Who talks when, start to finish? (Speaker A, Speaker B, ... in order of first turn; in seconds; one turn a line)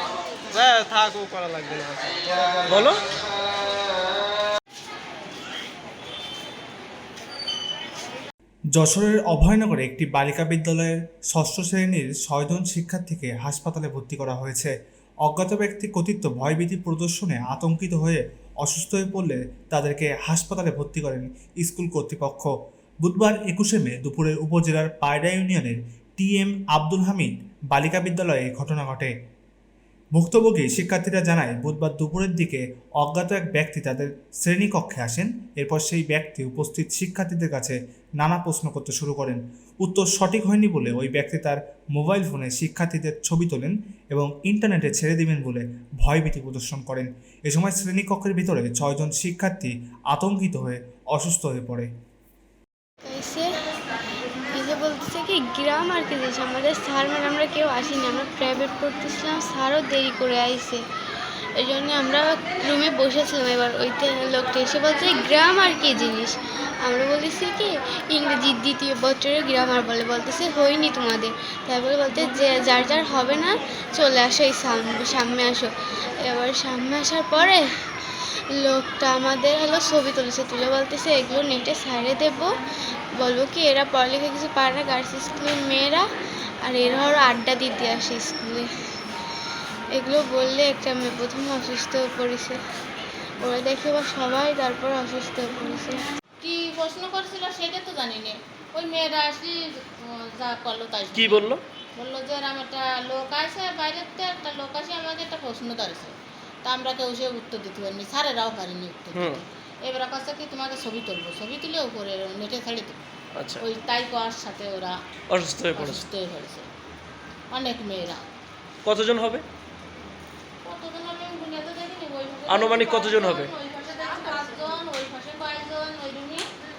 Speaker A: 0.5-2.9
Speaker B: 2.7-3.0
Speaker C: 8.7-14.7
Speaker C: 15.2-22.5
Speaker C: 23.0-29.1
Speaker C: 30.1-51.9
Speaker D: 53.1-53.6
Speaker D: 54.5-60.8
Speaker D: 61.6-77.7
Speaker D: 78.5-82.6
Speaker D: 83.2-86.0
Speaker D: 86.6-88.7
Speaker D: 89.9-92.6
Speaker D: 93.4-96.0
Speaker E: 96.4-113.0
Speaker B: 101.1-101.6
Speaker B: 109.1-109.4
Speaker B: 113.3-113.6
Speaker E: 113.6-115.0
Speaker B: 115.3-116.0
Speaker E: 115.7-116.7
Speaker E: 117.5-118.3
Speaker B: 118.8-119.4
Speaker E: 120.6-126.5
Speaker B: 122.5-123.5